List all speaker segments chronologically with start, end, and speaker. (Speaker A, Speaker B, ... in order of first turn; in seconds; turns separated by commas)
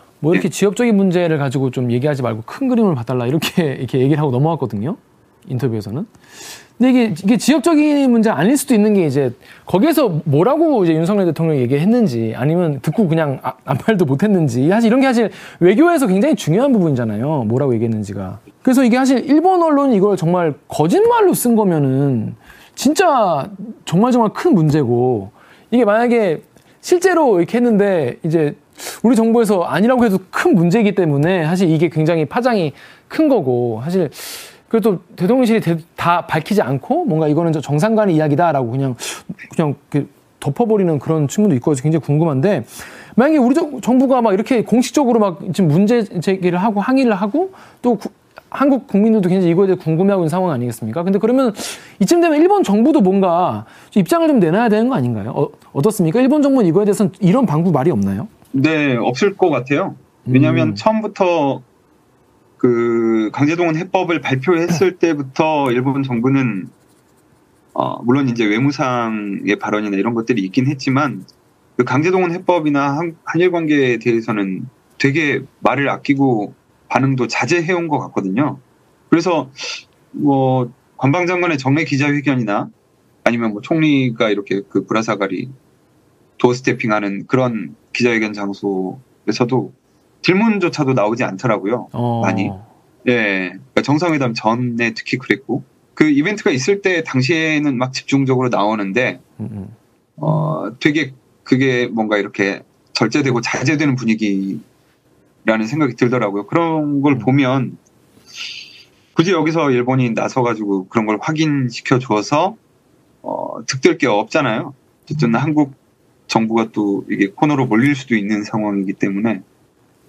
Speaker A: 0.2-6.1, Speaker A: 6.8-58.3, Speaker B: 58.5-61.6, Speaker A: 60.3-60.8, Speaker B: 62.6-66.7, Speaker B: 67.8-82.7, Speaker B: 83.2-85.5, Speaker B: 86.4-92.5, Speaker A: 91.9-92.6, Speaker B: 93.0-99.2, Speaker A: 99.4-100.5, Speaker B: 100.2-104.6, Speaker B: 105.5-107.8, Speaker B: 109.2-112.6, Speaker B: 113.2-115.8, Speaker B: 116.3-119.4